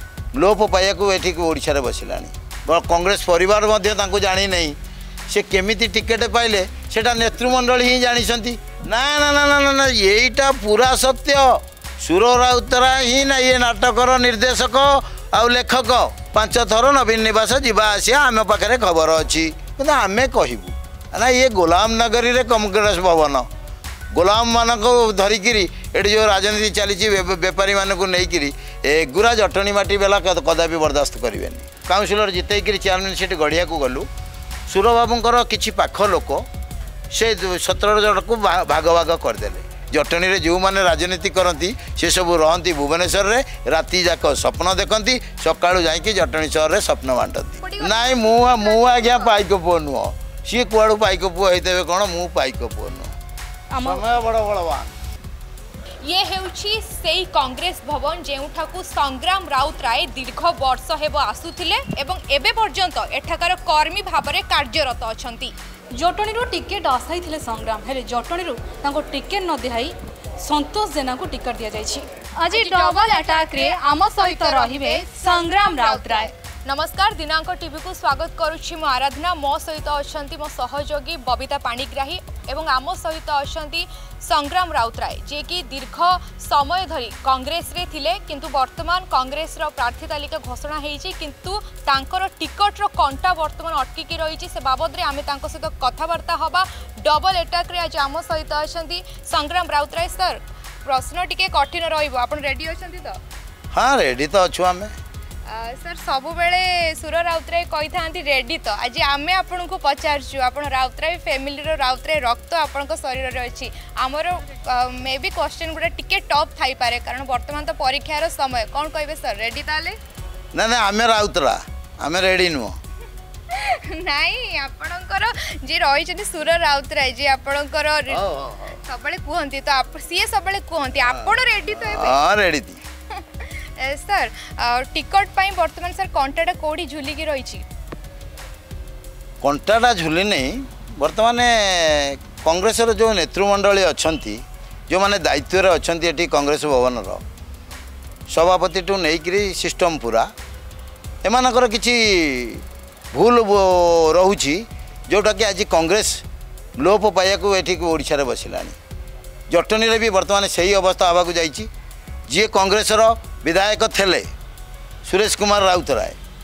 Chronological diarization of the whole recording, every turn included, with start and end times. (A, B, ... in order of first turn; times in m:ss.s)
0:00.4-0:04.8 A
0:05.3-0:23.5 A
0:24.1-0:34.1 A
0:34.7-0:36.5 A
0:37.1-0:53.1 A
0:47.6-0:49.4 B
0:53.7-0:54.0 C
0:53.8-0:54.9 A
0:56.1-1:05.5 B
1:06.0-1:16.3 C
1:12.5-1:43.2 B
1:43.7-1:44.9 A
1:45.5-2:00.0 B
2:00.5-2:02.8 A
2:03.5-2:08.3 B
2:08.1-2:08.8 A
2:08.8-2:12.2 B
2:11.8-2:12.8 A
2:13.1-2:17.6 B
2:19.4-2:27.2 A
2:28.3-2:30.3 A
2:31.2-2:36.2 A
2:36.8-2:38.8 A
2:39.5-2:41.7 A
2:42.3-2:44.3 A
2:45.0-2:46.2 A